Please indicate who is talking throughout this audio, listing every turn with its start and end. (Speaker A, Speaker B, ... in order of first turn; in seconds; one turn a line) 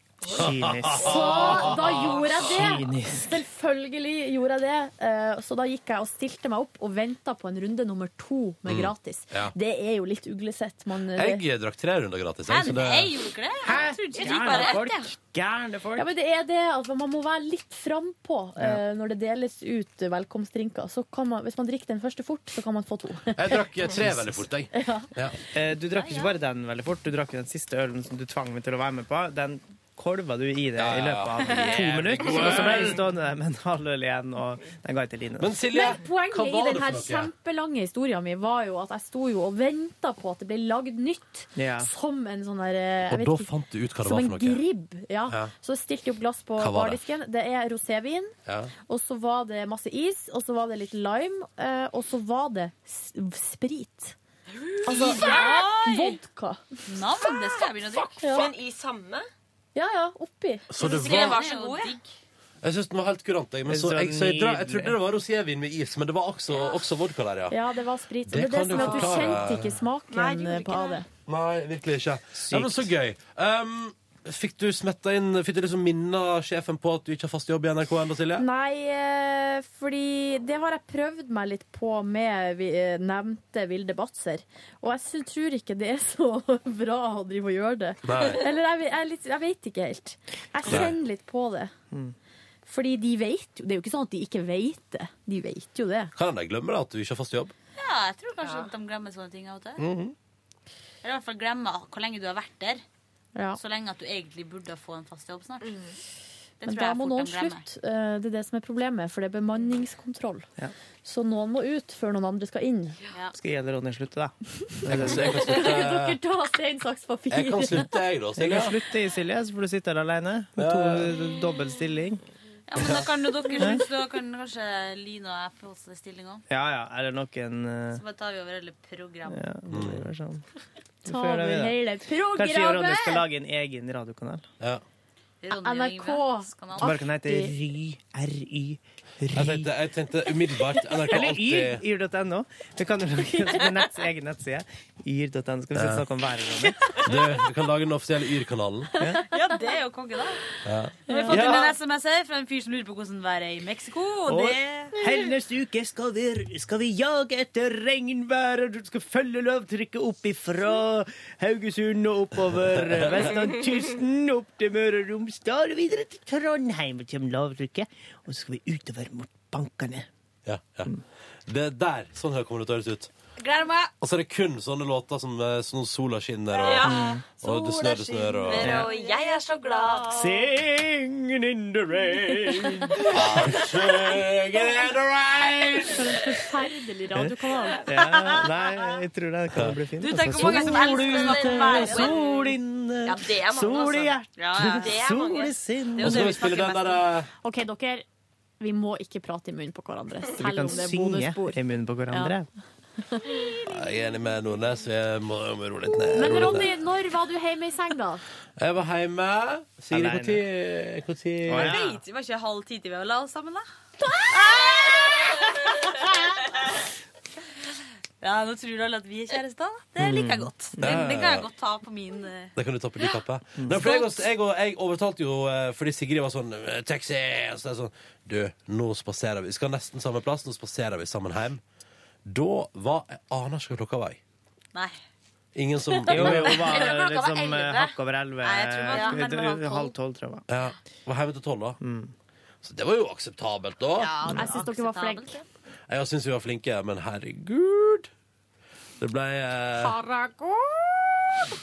Speaker A: 0.3-1.8
Speaker B: 0.3-2.2
Speaker C: 1.0-11.4
Speaker A: 2.4-3.4
Speaker B: 8.7-9.5
Speaker B: 11.1-13.1
Speaker D: 12.5-15.1
Speaker A: 13.6-16.1
Speaker E: 14.3-14.7
Speaker C: 16.0-24.0
Speaker B: 23.3-25.4
Speaker C: 24.7-25.1
Speaker A: 25.5-35.5
Speaker D: 25.9-26.3
Speaker B: 30.8-33.0
Speaker B: 35.4-37.3
Speaker C: 35.7-43.5
Speaker A: 41.5-41.9
Speaker B: 43.1-44.6
Speaker C: 44.0-48.3
Speaker B: 46.6-47.0
Speaker B: 48.5-48.7
Speaker C: 48.9-54.1
Speaker D: 54.6-56.2
Speaker C: 54.8-56.8
Speaker E: 55.0-55.6
Speaker D: 56.9-58.2
Speaker E: 58.1-59.2
Speaker C: 58.2-58.5
Speaker C: 59.7-60.7
Speaker B: 60.7-61.4
Speaker E: 60.8-62.0
Speaker D: 60.8-62.1
Speaker B: 62.6-67.6
Speaker A: 63.7-65.0
Speaker C: 67.5-71.0
Speaker B: 68.3-69.8
Speaker E: 68.7-69.2
Speaker E: 70.1-71.0
Speaker B: 71.3-78.4
Speaker A: 72.4-72.9
Speaker C: 78.4-91.7
Speaker B: 88.0-88.4
Speaker B: 90.7-90.9
Speaker C: 92.7-96.1
Speaker B: 96.1-97.5
Speaker D: 97.8-99.8
Speaker E: 98.4-98.7
Speaker B: 99.8-100.1
Speaker D: 101.0-102.8
Speaker D: 103.5-105.8
Speaker E: 105.6-105.9
Speaker D: 106.6-107.6
Speaker C: 106.7-110.5
Speaker C: 111.0-113.0
Speaker A: 113.3-115.5
Speaker B: 114.9-116.2
Speaker C: 115.4-117.9
Speaker B: 117.3-118.7
Speaker A: 118.4-122.2
Speaker B: 120.6-121.1
Speaker D: 122.7-126.4
Speaker A: 123.5-123.8
Speaker A: 126.5-128.0
Speaker D: 127.9-129.4
Speaker A: 129.3-130.4
Speaker B: 129.7-130.0
Speaker A: 131.0-131.8
Speaker C: 131.1-133.2
Speaker A: 132.3-134.4
Speaker D: 135.4-136.9
Speaker C: 135.6-137.5
Speaker A: 136.8-139.7
Speaker B: 139.3-141.8
Speaker A: 141.1-147.0
Speaker B: 145.7-146.0
Speaker B: 147.0-148.9
Speaker D: 149.2-150.4
Speaker B: 150.6-151.7
Speaker C: 151.1-151.5
Speaker D: 151.1-155.0
Speaker A: 154.3-170.1
Speaker B: 162.7-163.3
Speaker B: 170.4-170.9
Speaker B: 171.5-173.1
Speaker D: 173.4-173.9
Speaker B: 174.0-178.8
Speaker E: 176.5-180.4
Speaker A: 176.8-177.2
Speaker D: 177.7-180.1
Speaker A: 178.6-178.9
Speaker A: 180.1-183.5
Speaker B: 183.1-186.2
Speaker C: 185.9-187.8
Speaker A: 187.8-196.4
Speaker D: 190.0-192.4
Speaker E: 190.3-192.5
Speaker E: 193.0-195.6
Speaker D: 194.4-195.0
Speaker D: 196.0-197.0
Speaker B: 196.0-197.3
Speaker C: 197.4-198.0
Speaker C: 198.6-201.6
Speaker A: 200.4-202.5
Speaker C: 203.1-203.3
Speaker B: 203.7-206.7
Speaker C: 206.1-208.2
Speaker B: 208.6-211.8
Speaker A: 209.9-210.4
Speaker A: 211.5-212.0
Speaker D: 211.6-213.7
Speaker D: 214.3-215.9
Speaker D: 218.2-222.5
Speaker A: 220.0-221.0
Speaker B: 220.8-221.5
Speaker B: 222.6-231.6
Speaker D: 223.8-224.1
Speaker B: 232.2-234.2
Speaker D: 234.7-235.0
Speaker B: 235.5-236.9
Speaker A: 236.1-240.4
Speaker D: 236.1-239.9
Speaker B: 240.5-241.8
Speaker A: 241.8-242.1
Speaker B: 242.6-244.2
Speaker D: 243.9-245.4
Speaker C: 244.3-245.4
Speaker B: 245.9-248.1
Speaker B: 249.0-250.0
Speaker C: 249.8-251.1